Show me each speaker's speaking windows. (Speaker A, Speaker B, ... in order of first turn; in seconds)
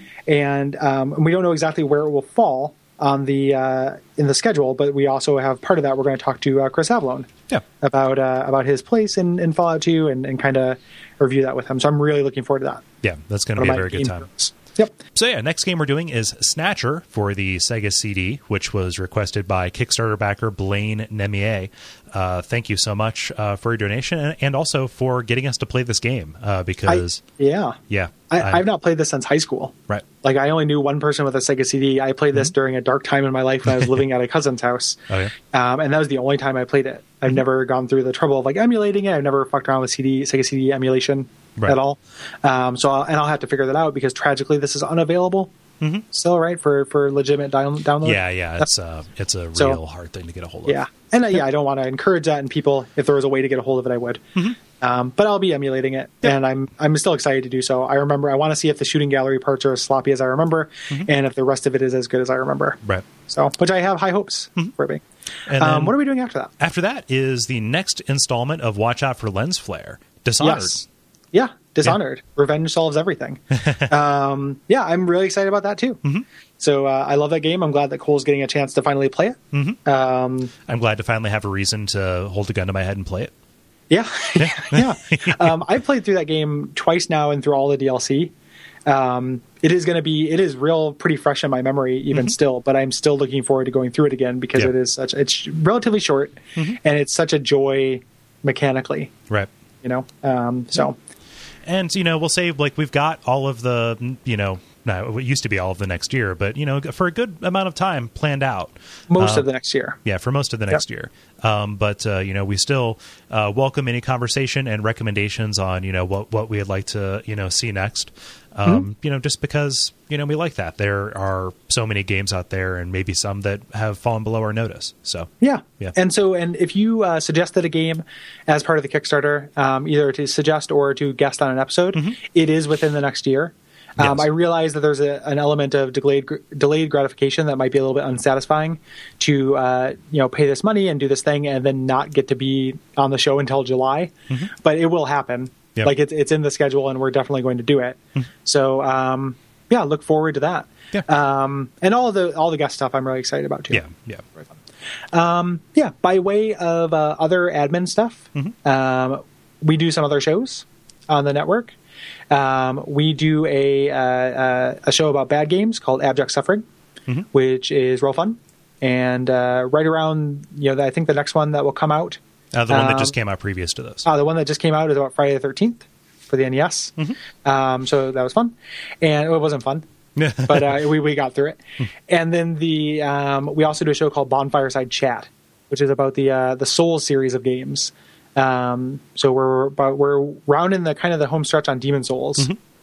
Speaker A: 0.3-12.8, 13.6-15.0, 26.9-27.8, 28.3-45.5, 46.1-48.7, 50.6-65.0, 65.5-66.5, 70.4-76.0, 76.6-80.5, 83.9-88.3, 88.8-99.1, 99.8-101.0, 109.1-110.0, 125.4-153.8, 155.1-161.7, 162.3-166.6, 167.3-173.2, 174.0-179.8, 180.4-192.5
Speaker B: 13.0-14.3, 15.1-27.2, 27.9-28.6, 35.1-35.3, 48.0-50.8, 65.5-66.0, 66.6-70.8, 79.5-79.8, 80.7-83.3, 84.4-85.5, 101.7-109.5, 110.0-125.9, 134.0-134.2, 153.7-154.2, 172.5-174.1, 180.2-180.8